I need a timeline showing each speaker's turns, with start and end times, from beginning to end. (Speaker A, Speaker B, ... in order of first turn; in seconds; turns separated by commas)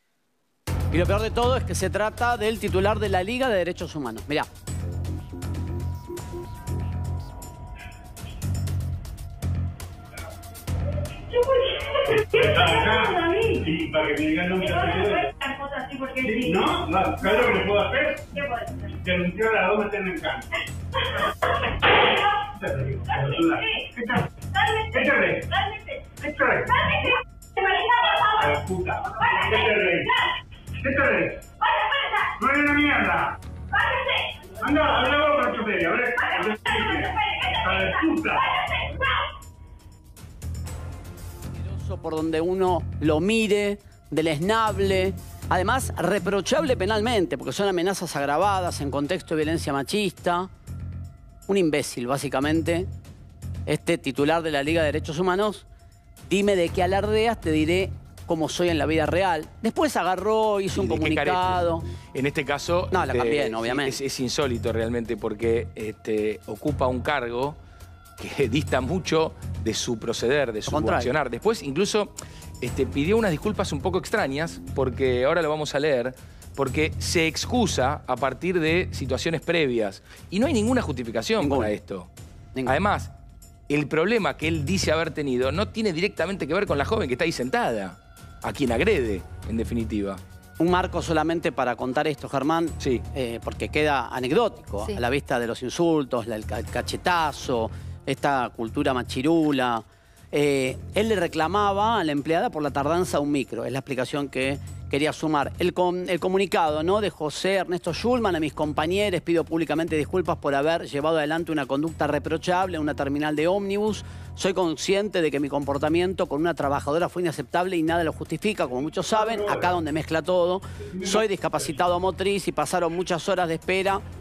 Speaker A: 0.9-4.5, Speaker B: 12.2-15.4, Speaker B: 16.1-20.6, Speaker B: 22.4-24.3, Speaker B: 24.8-27.2, Speaker B: 28.1-30.2, Speaker B: 30.8-31.4, Speaker B: 32.2-33.4, Speaker B: 34.6-38.6, Speaker A: 41.5-50.5, Speaker A: 51.5-52.9, Speaker A: 53.7-55.7, Speaker A: 56.3-61.9, Speaker C: 60.7-67.6, Speaker A: 62.9-64.0, Speaker C: 68.2-82.1, Speaker A: 70.7-71.1, Speaker A: 81.4-81.7, Speaker C: 82.7-83.1, Speaker C: 83.7-90.2, Speaker A: 90.6-124.0, Speaker C: 92.8-93.0, Speaker B: 119.2-119.7